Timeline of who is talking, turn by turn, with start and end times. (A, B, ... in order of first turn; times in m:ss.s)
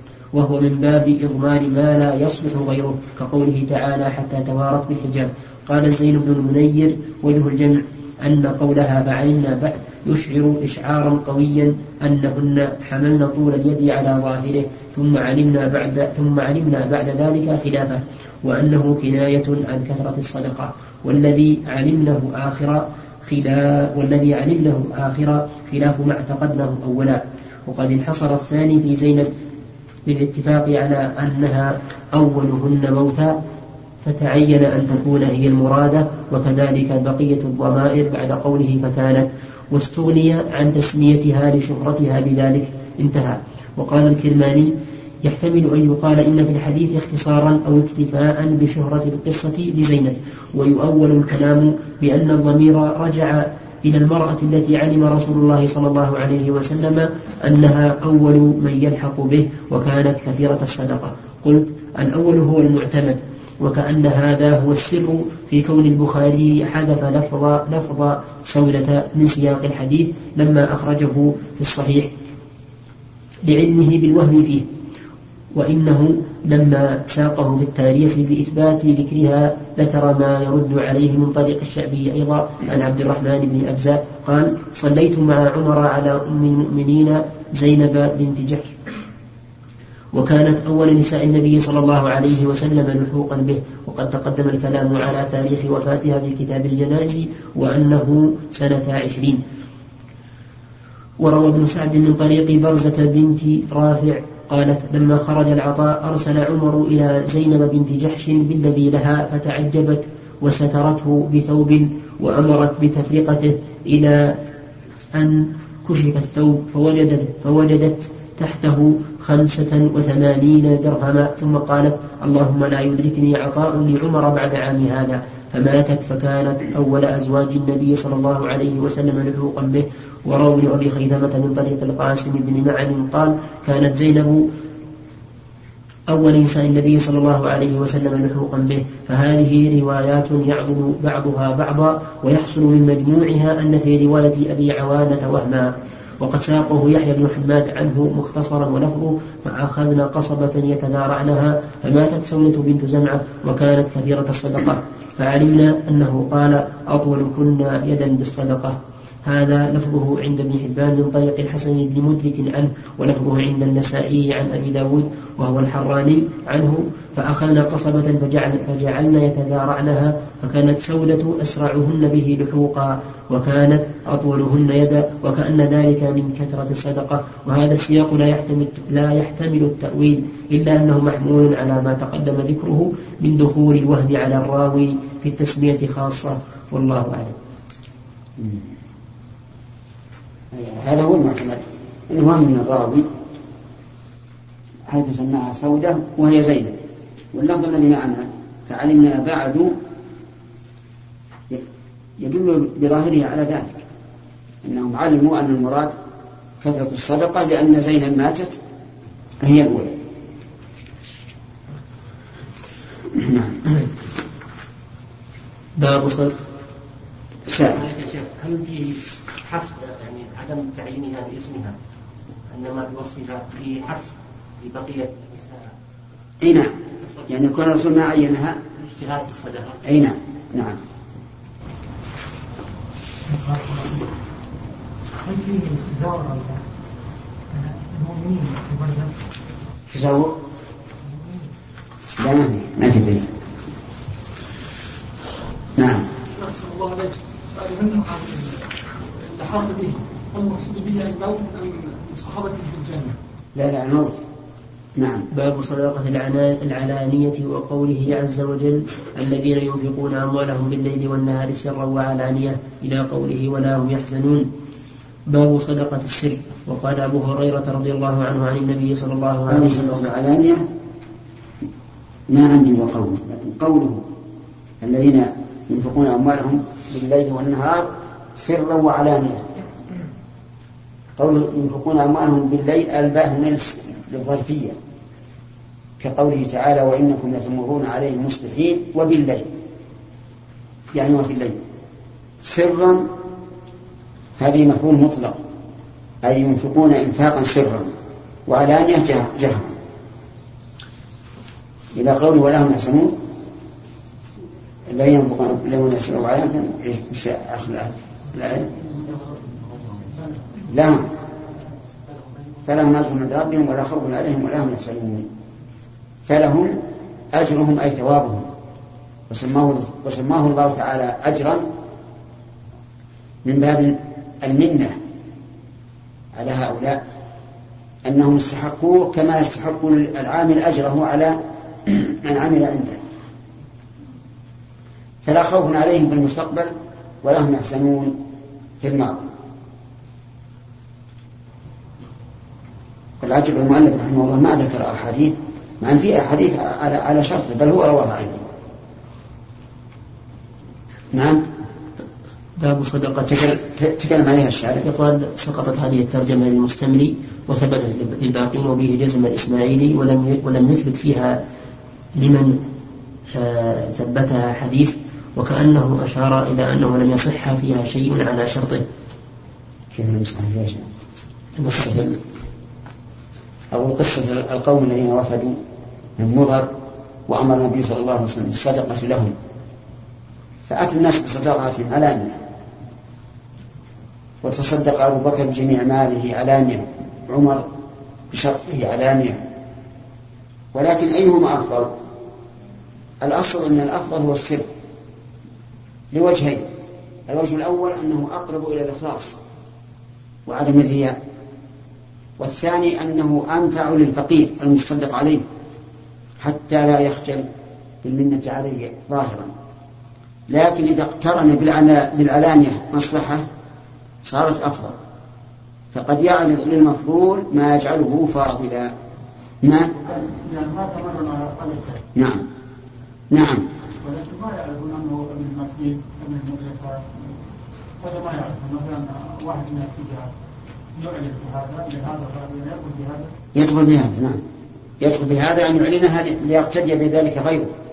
0:00.3-0:29.3 A
0:30.1-0:33.4 A
0:34.0-1:12.1 A
1:13.4-1:14.7 A
1:15.6-1:28.8 A
1:30.1-1:39.4 A
1:41.2-1:54.4 A
1:55.1-2:14.4 A
2:16.1-3:07.4 A
3:08.4-3:08.7 B
3:10.5-3:13.1 B
3:14.9-3:16.8 B
3:17.3-3:19.8 B
3:22.2-3:23.8 B
3:24.6-3:25.9 B
3:26.6-3:28.6 B
3:29.4-3:30.0 B
3:33.1-3:33.9 B
3:35.8-3:36.4 A
3:37.5-3:37.8 B
3:37.6-3:41.8 C
3:42.5-3:45.7 C
3:46.4-3:46.7 B
3:47.3-3:48.6 B
3:48.8-3:49.8 C
3:49.8-3:50.8 B
3:53.3-3:54.1 D
3:55.2-3:56.6 D
3:57.6-3:59.1 D
3:59.9-4:00.4 B
4:02.2-4:03.3 B
4:05.8-4:06.1 B
4:06.4-4:08.7 E
4:09.2-4:13.2 E
4:13.6-4:14.2 B
4:15.0-4:15.3 B
4:15.3-4:24.5 A
4:25.3-4:30.1 A
4:29.5-4:30.7 B
4:32.3-4:34.1 B
4:34.8-4:39.5 B
4:41.2-4:44.8 B
4:46.0-4:49.5 B
4:50.9-4:51.6 B
4:52.4-4:53.1 B
4:54.4-4:55.4 B
4:56.2-4:57.9 B
4:58.5-4:59.8 B
5:01.9-5:03.2 B
5:04.9-5:08.7 B
5:10.7-5:11.1 B
5:12.7-5:15.3 B
5:16.3-5:16.8 B
5:17.3-5:18.5 B
5:19.3-5:21.7 B
5:23.4-5:25.0 B
5:26.3-5:27.0 B
5:28.1-5:33.0 B
5:35.2-5:38.2 B
5:38.8-5:39.3 B
5:43.2-5:48.5 B
5:51.1-5:51.4 B
5:52.6-5:53.6 A
5:53.3-5:54.8 B
5:54.8-6:01.4 A
6:02.2-6:02.6 A
6:03.3-6:08.8 A
6:09.9-6:10.9 B
6:11.6-6:11.8 A
6:11.7-6:12.2 B
6:13.7-6:15.6 B
6:16.2-6:16.7 B
6:17.3-6:19.3 B
6:20.7-6:22.4 B
6:24.4-6:27.7 B
6:28.3-6:29.4 B
6:30.7-6:31.9 B
6:33.2-6:34.7 B
6:36.1-6:36.7 B
6:37.3-6:39.4 B
6:40.5-6:41.2 B
6:42.4-6:45.5 B
6:46.4-6:47.4 B
6:48.0-6:49.5 B
6:50.5-6:53.5 B
6:54.2-6:55.0 B
6:55.9-6:58.9 B
6:59.6-7:00.0 B
7:00.0-7:02.0 E
7:02.2-7:02.5 B
7:03.3-7:03.7 B
7:04.0-7:07.4 E
7:08.0-7:10.3 E
7:11.0-7:13.3 E
7:13.6-7:14.4 B
7:15.0-7:17.7 B